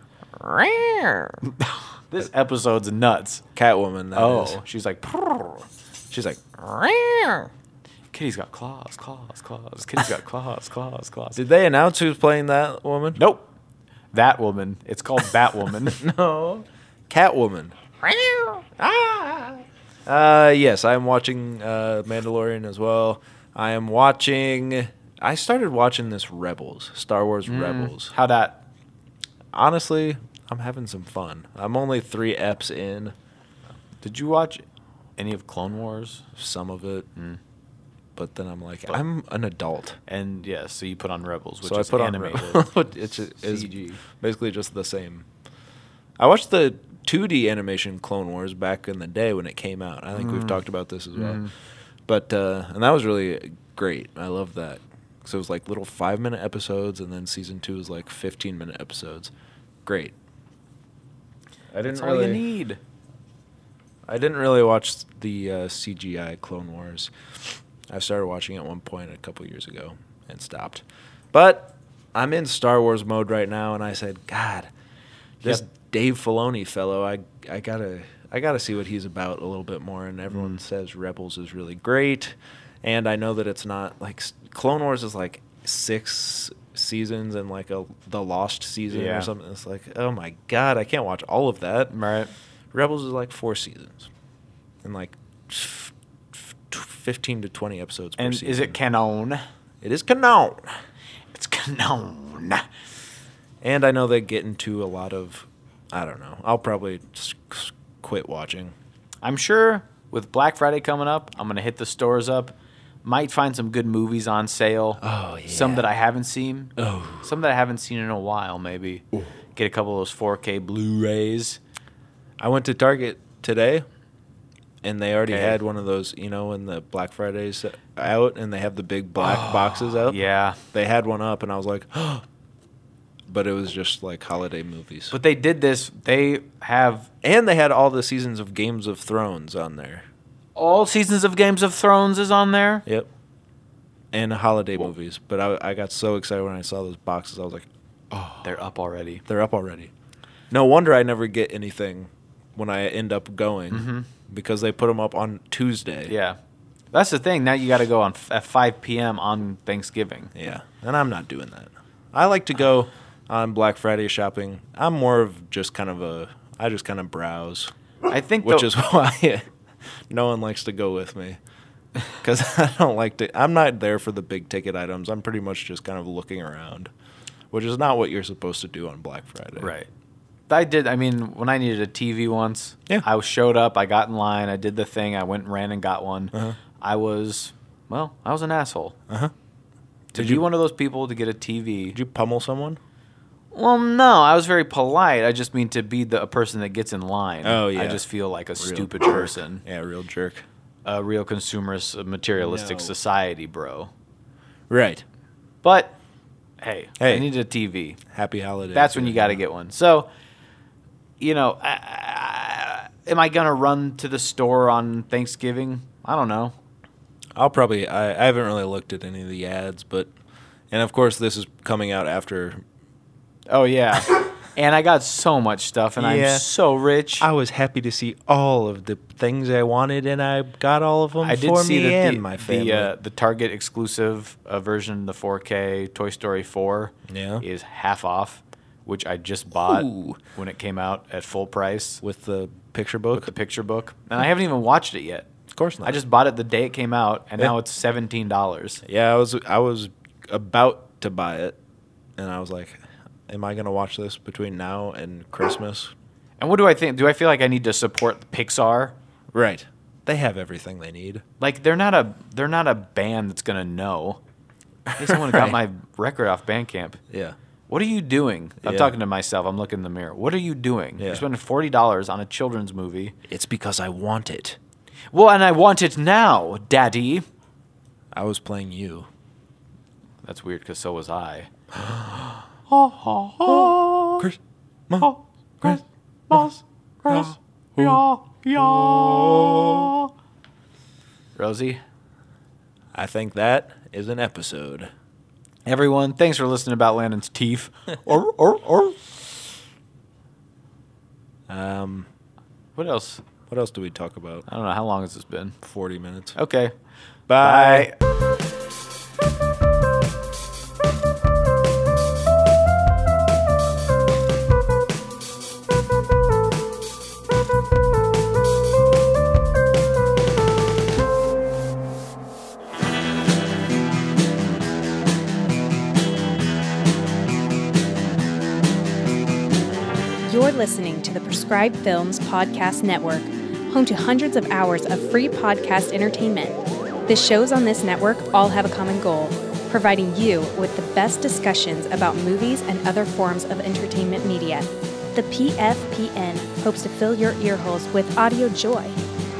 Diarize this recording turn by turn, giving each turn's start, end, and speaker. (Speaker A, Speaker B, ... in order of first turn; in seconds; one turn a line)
Speaker A: 0.4-3.4
Speaker B: 3.5-4.6
Speaker A: 4.1-5.7
Speaker B: 6.1-7.2
Speaker A: 8.1-11.4
Speaker B: 11.3-13.2
Speaker A: 13.2-13.5
Speaker A: 14.1-16.0
Speaker B: 15.8-28.1
Speaker A: 27.4-28.6
Speaker B: 29.5-33.1
Speaker A: 34.0-34.6
Speaker A: 35.2-36.3
Speaker B: 36.3-37.1
Speaker B: 38.1-40.0
Speaker A: 40.1-42.7
Speaker B: 41.6-45.2
Speaker A: 43.3-44.0
Speaker B: 46.2-51.4
Speaker A: 50.1-50.6
Speaker A: 51.1-51.5
Speaker B: 52.1-59.3
Speaker B: 59.8-60.1
Speaker B: 61.7-62.4
Speaker A: 61.8-62.8
Speaker B: 64.1-74.7
Speaker B: 75.4-91.9
Speaker A: 80.3-80.6
Speaker A: 88.9-89.3
Speaker A: 91.9-92.3
Speaker B: 92.7-94.1
Speaker B: 94.8-98.8
Speaker A: 98.2-99.4
Speaker B: 99.8-100.7
Speaker A: 101.3-102.6
Speaker B: 103.6-108.7
Speaker A: 109.2-119.0
Speaker B: 115.0-115.9
Speaker B: 116.8-117.2
Speaker A: 119.5-121.6
Speaker B: 122.4-123.8
Speaker B: 124.8-130.2
Speaker A: 125.3-125.6
Speaker A: 129.2-130.6
Speaker B: 130.7-132.2
Speaker B: 133.3-135.1
Speaker A: 135.1-137.1
Speaker B: 137.2-140.1
Speaker A: 140.6-142.8
Speaker B: 144.1-148.5
Speaker A: 148.4-149.2
Speaker B: 149.2-149.9
Speaker B: 150.5-156.1
Speaker A: 153.7-154.1
Speaker A: 156.1-156.4
Speaker A: 156.9-160.3
Speaker B: 160.3-167.7
Speaker A: 168.1-168.7
Speaker B: 168.4-169.5
Speaker B: 170.1-171.4
Speaker B: 172.2-176.9
Speaker B: 177.5-179.7
Speaker A: 179.6-179.9
Speaker A: 180.5-189.0
Speaker B: 190.1-190.4
Speaker A: 190.1-192.0
Speaker B: 191.9-192.8
Speaker A: 193.5-199.6
Speaker B: 197.4-198.0
Speaker B: 198.6-200.4
Speaker A: 200.8-203.9
Speaker B: 202.4-202.9
Speaker B: 204.7-205.0
Speaker A: 205.6-205.9
Speaker A: 206.6-208.0
Speaker B: 207.0-207.3
Speaker B: 208.1-209.4
Speaker A: 208.7-210.1
Speaker A: 211.2-216.6
Speaker B: 217.3-220.1
Speaker B: 220.7-222.6
Speaker A: 223.5-227.2
Speaker B: 226.0-226.4
Speaker B: 227.2-232.9
Speaker A: 231.2-242.0
Speaker B: 237.1-237.4
Speaker B: 239.5-240.2
Speaker B: 242.0-243.3
Speaker A: 243.1-245.3
Speaker B: 245.5-246.0
Speaker A: 245.8-248.8
Speaker B: 248.8-251.6
Speaker B: 252.2-255.9
Speaker A: 256.4-258.9
Speaker B: 259.3-261.2
Speaker A: 261.4-264.2
Speaker B: 264.9-265.6
Speaker A: 264.9-267.0
Speaker B: 267.1-267.4
Speaker A: 267.7-273.1
Speaker B: 268.6-269.0
Speaker B: 271.0-271.2
Speaker B: 273.3-274.6
Speaker A: 275.1-277.2
Speaker B: 278.1-279.1
Speaker A: 280.2-284.3
Speaker B: 283.5-284.4
Speaker A: 285.0-290.1
Speaker B: 288.6-289.9
Speaker A: 291.4-291.8
Speaker B: 292.9-294.9
Speaker A: 295.6-299.1
Speaker B: 301.5-302.1
Speaker A: 302.8-303.2
Speaker B: 303.5-304.4
Speaker A: 304.5-305.6
Speaker B: 305.6-306.4
Speaker A: 306.4-306.7
Speaker B: 307.3-307.9
Speaker A: 307.4-307.9
Speaker C: 330.2-349.0